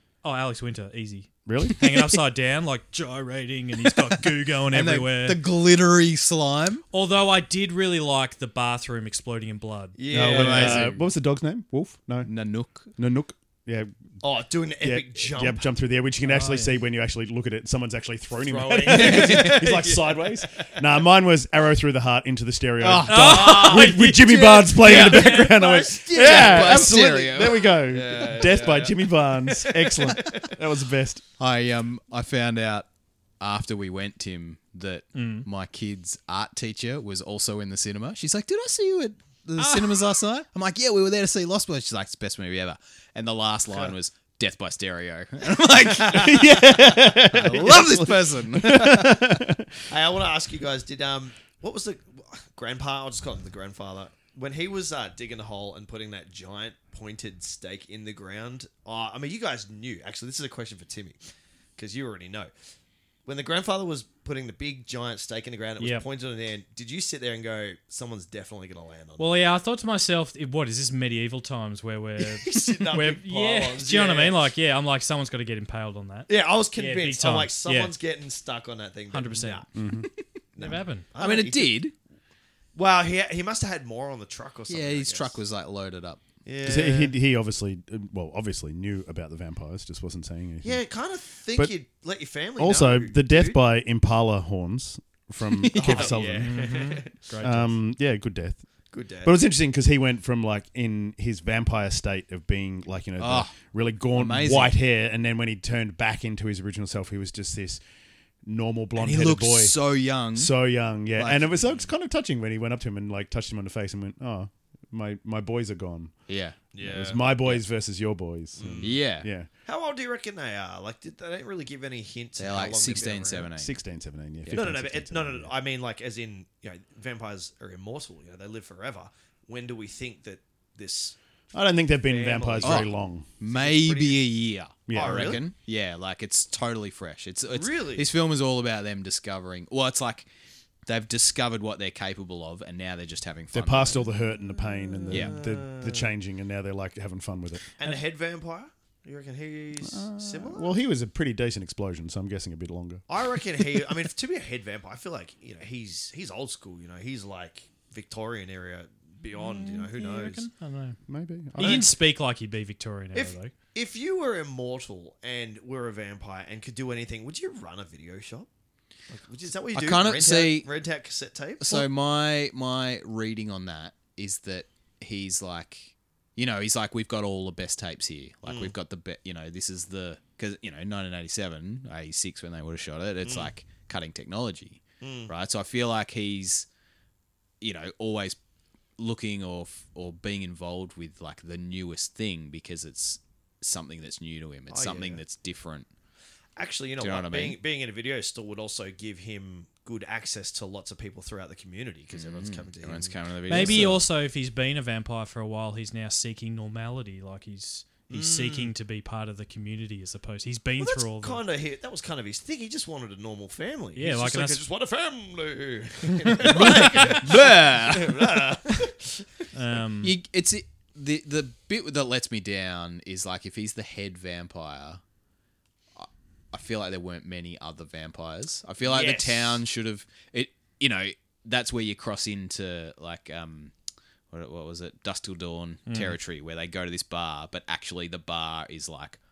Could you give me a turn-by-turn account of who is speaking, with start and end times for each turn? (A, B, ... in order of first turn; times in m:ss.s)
0:00.2-0:05.4 A
0:01.4-0:01.8 B
0:04.1-0:06.8 C
0:06.9-0:10.0 A
0:09.9-0:10.9 D
0:10.1-0:12.3 B
0:10.1-0:11.0 C
0:12.2-0:12.9 C
0:13.0-0:13.9 B
0:14.2-0:15.6 D
0:14.8-0:31.2 B
0:16.2-0:16.7 A
0:18.3-0:20.7 D
0:18.8-0:19.7 C
0:22.8-0:27.8 C
0:23.1-0:24.3 A
0:23.2-0:30.6 D
0:31.4-0:32.9 C
0:33.4-0:49.4 C
0:35.1-0:35.5 A
0:39.6-0:40.0 A
0:46.0-0:49.7 B
0:47.3-0:48.1 D
0:49.9-1:01.2 D
1:01.8-1:02.5 D
1:03.2-1:09.4 D
1:05.8-1:06.0 A
1:09.2-1:17.9 A
1:12.2-1:14.4 D
1:16.3-1:19.7 D
1:19.1-1:19.6 A
1:19.7-1:20.1 B
1:20.6-1:21.8 D
1:20.6-1:21.0 A
1:21.2-1:21.9 C
1:22.7-1:25.4 D
1:24.7-1:26.2 C
1:26.4-1:27.1 D
1:26.6-1:30.8 B
1:30.6-1:33.6 D
1:32.6-1:38.6 B
1:35.4-1:36.1 C
1:35.8-1:37.1 D
1:36.4-1:37.8 A
1:38.9-1:39.4 D
1:39.2-1:47.8 B
1:43.2-1:43.5 C
1:44.1-1:44.8 C
1:48.4-1:49.8 B
1:49.0-1:50.5 C
1:50.3-1:56.1 B
1:51.2-1:51.7 C
1:56.3-1:56.6 C
1:56.7-1:57.2 D
1:56.8-1:59.5 B
1:58.6-1:59.0 D
1:58.8-1:59.3 C
1:59.6-2:03.5 D
2:02.4-2:03.7 C
2:03.5-2:05.5 B
2:04.5-2:11.2 D
2:11.5-2:13.3 B
2:12.0-2:14.2 D
2:12.6-2:20.3 C
2:14.9-2:15.4 B
2:14.9-2:15.4 D
2:17.5-2:18.1 D
2:20.8-2:24.0 C
2:23.5-2:27.6 B
2:24.6-2:26.1 D
2:25.1-2:25.3 C
2:27.8-2:30.8 D
2:29.8-2:33.0 B
2:33.1-2:40.4 D
2:39.3-2:41.0 A
2:41.1-2:41.8 B
2:41.5-2:43.5 A
2:41.6-2:41.9 D
2:43.1-2:48.5 D
2:49.1-2:51.9 D
2:49.7-2:50.7 C
2:51.6-3:06.6 C
2:58.4-2:58.7 D
3:03.2-3:03.5 D
3:05.0-3:05.3 D
3:07.6-3:08.4 C
3:09.0-3:15.9 C
3:14.7-3:15.2 D
3:16.6-3:24.0 D
3:17.0-3:17.6 C
3:22.1-3:24.0 C
3:23.5-3:31.4 A
3:28.1-3:28.7 D
3:30.8-3:39.3 D
3:33.9-3:34.6 A
3:36.2-3:36.7 A
3:36.4-3:38.5 C
3:39.5-3:40.2 A
3:40.0-3:45.0 C
3:45.9-3:53.7 C
3:48.8-3:49.6 D
3:54.3-3:59.2 C
3:55.9-3:56.2 A